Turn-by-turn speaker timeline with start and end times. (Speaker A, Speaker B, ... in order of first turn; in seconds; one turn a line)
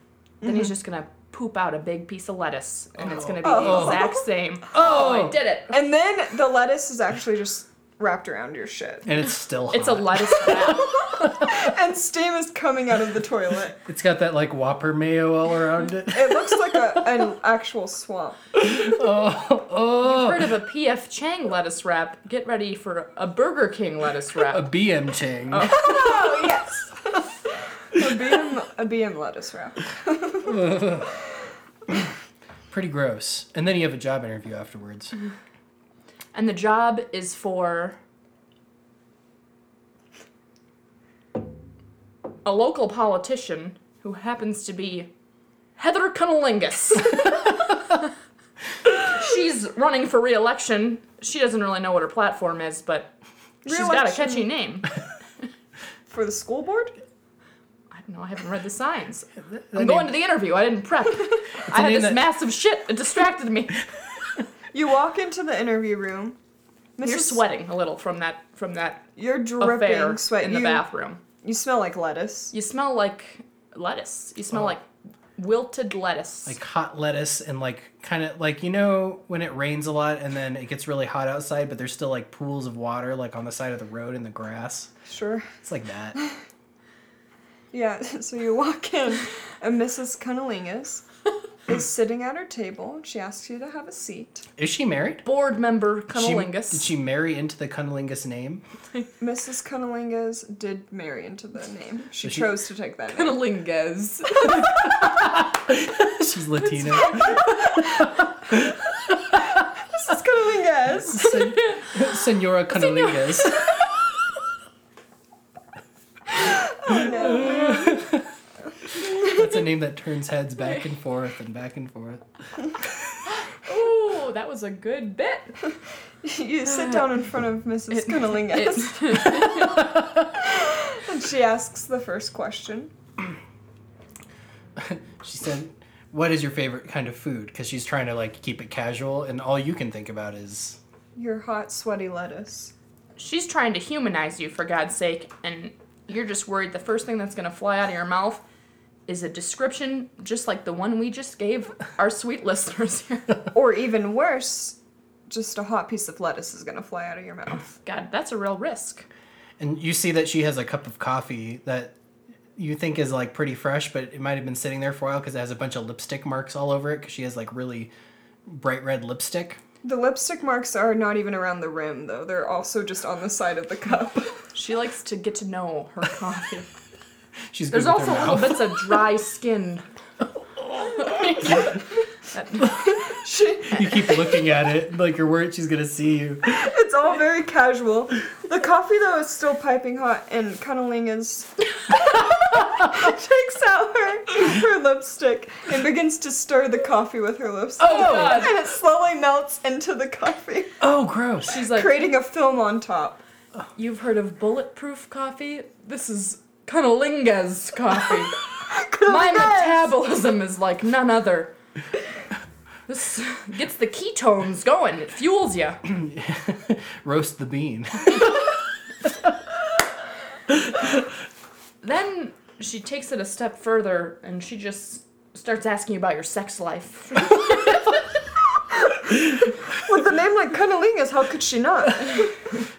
Speaker A: 0.4-5.8
Speaker B: 0.4-0.7
Speaker C: 3.1-4.1
Speaker B: 3.4-4.2
Speaker C: 4.7-5.4
Speaker B: 5.7-9.1
Speaker C: 9.0-11.7
Speaker A: 9.7-11.2
Speaker B: 10.7-13.8
Speaker C: 13.8-17.0
Speaker B: 16.1-18.5
Speaker C: 18.6-20.5
Speaker A: 20.0-24.7
Speaker C: 24.5-25.7
Speaker A: 25.5-26.4
Speaker B: 25.6-27.1
Speaker B: 27.9-30.8
Speaker C: 30.4-31.1
Speaker C: 32.7-35.1
Speaker A: 36.3-38.0
Speaker A: 42.4-45.1
Speaker A: 45.8-47.9
Speaker A: 48.9-53.1
Speaker B: 53.6-54.5
Speaker A: 53.6-54.9
Speaker B: 56.1-56.9
Speaker A: 57.9-63.8
Speaker C: 59.4-60.2
Speaker C: 61.6-62.3
Speaker B: 64.7-66.4
Speaker B: 67.0-67.4
Speaker A: 67.0-69.1
Speaker B: 69.2-70.8
Speaker A: 69.6-71.2
Speaker B: 71.4-72.5
Speaker A: 72.5-74.8
Speaker A: 75.4-76.6
Speaker C: 76.5-84.9
Speaker B: 85.0-85.5
Speaker C: 85.6-86.2
Speaker B: 87.7-91.0
Speaker B: 91.7-94.5
Speaker C: 94.6-95.2
Speaker A: 95.2-96.9
Speaker C: 96.1-98.6
Speaker B: 99.2-103.5
Speaker C: 102.2-102.5
Speaker A: 103.1-104.9
Speaker C: 104.6-109.6
Speaker A: 106.7-107.5
Speaker B: 109.9-111.3
Speaker C: 111.1-113.7
Speaker A: 111.2-112.2
Speaker A: 112.7-113.9
Speaker B: 116.4-118.1
Speaker C: 117.0-118.2
Speaker B: 118.8-119.5
Speaker C: 118.9-122.2
Speaker A: 120.6-120.8
Speaker A: 123.4-125.6
Speaker B: 126.2-129.6
Speaker A: 126.6-127.2
Speaker A: 127.9-129.9
Speaker C: 129.4-130.3
Speaker B: 130.4-132.9
Speaker C: 134.8-140.8
Speaker B: 141.1-142.7
Speaker A: 143.2-148.4
Speaker A: 149.1-153.3
Speaker B: 153.5-154.8
Speaker B: 155.3-157.7
Speaker A: 157.7-159.1
Speaker C: 159.6-161.9
Speaker C: 162.6-167.9
Speaker C: 168.4-169.6
Speaker B: 169.8-174.4
Speaker A: 174.5-176.7
Speaker C: 177.5-179.0
Speaker A: 177.7-179.9
Speaker C: 180.6-181.7
Speaker A: 180.8-183.0
Speaker B: 183.0-184.3
Speaker C: 183.7-186.7
Speaker B: 186.5-200.8
Speaker C: 197.8-198.5
Speaker A: 197.8-198.6
Speaker C: 200.8-201.6
Speaker A: 201.4-202.1
Speaker B: 201.7-203.2
Speaker A: 203.8-208.4
Speaker B: 208.7-209.9
Speaker A: 209.0-211.5
Speaker A: 212.9-215.8
Speaker C: 215.8-219.5
Speaker C: 220.5-221.1
Speaker A: 221.8-228.0
Speaker B: 229.0-232.4